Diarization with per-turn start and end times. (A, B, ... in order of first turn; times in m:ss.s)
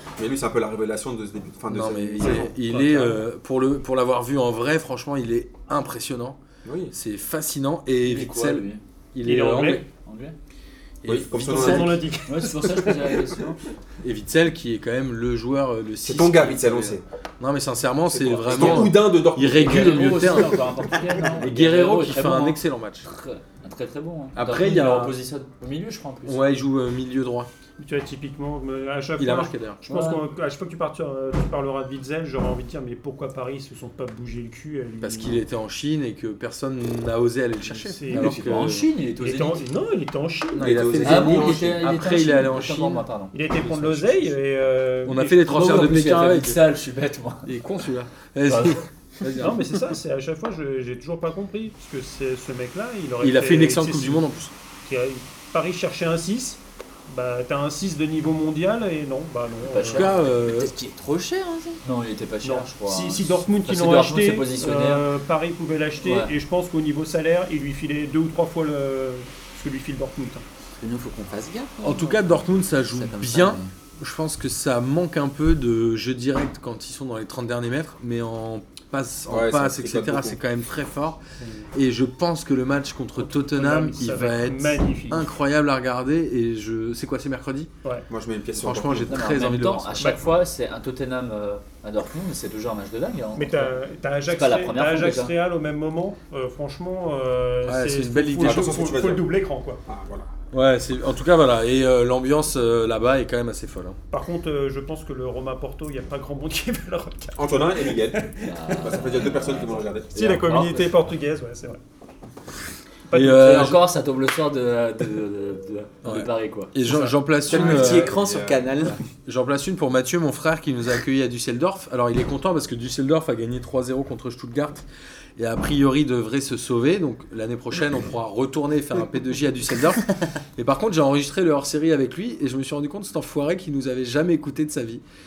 0:00.2-0:02.5 A
0:01.7-0:06.4 B
0:02.2-0:03.2 C
0:06.6-0:06.9 A
0:06.9-0:09.8 B
0:08.0-0:08.8 D
0:09.2-0:09.8 C
0:10.0-0:10.4 D
0:11.0-0:12.0 B
0:11.1-0:12.0 A
0:11.5-0:13.2 C
0:12.3-0:13.6 D
0:14.0-0:20.6 B
0:16.0-0:17.0 A
0:18.1-0:20.4 A
0:18.5-0:19.0 D
0:19.6-0:26.4 D
0:21.4-0:23.1 B
0:24.4-0:25.2 B
0:26.3-0:27.5 B
0:27.8-0:35.4 C
0:29.2-0:29.9 B
0:29.9-0:30.2 D
0:35.0-0:38.9 B
0:37.7-0:38.5 C
0:38.1-0:39.6 D
0:39.2-0:40.8 C
0:40.5-0:43.0 B
0:40.6-0:41.8 A
0:41.0-0:43.4 D
0:43.3-0:45.4 C
0:43.6-0:44.3 B
0:45.1-0:46.6 B
0:45.5-0:47.5 D
0:47.5-0:49.8 B
0:48.5-0:48.8 D
0:49.4-0:54.2 C
0:53.2-0:54.5 B
0:54.9-1:00.2 C
0:59.6-1:00.3 D
0:59.9-1:00.7 B
1:00.4-1:01.8 E
1:01.8-1:05.1 D
1:02.4-1:10.4 C
1:06.0-1:06.3 D
1:10.8-1:13.7 E
1:11.8-1:21.2 B
1:19.3-1:20.4 A
1:21.7-1:27.7 B
1:23.2-1:25.3 C
1:28.1-1:29.2 A
1:28.6-1:30.2 B
1:29.1-1:33.8 D
1:30.0-1:30.2 C
1:33.4-1:39.8 C
1:34.3-1:35.3 D
1:37.6-1:38.8 B
1:38.4-1:39.3 A
1:39.9-1:40.3 A
1:40.5-1:44.0 B
1:44.1-1:49.0 C
1:47.4-1:50.1 A
1:48.4-1:51.0 D
1:50.2-1:51.8 C
1:53.1-1:53.8 B
1:53.1-1:57.1 D
1:56.0-1:58.2 B
1:57.5-1:59.0 E
1:57.5-1:58.7 A
1:59.3-2:04.9 B
2:05.4-2:15.0 B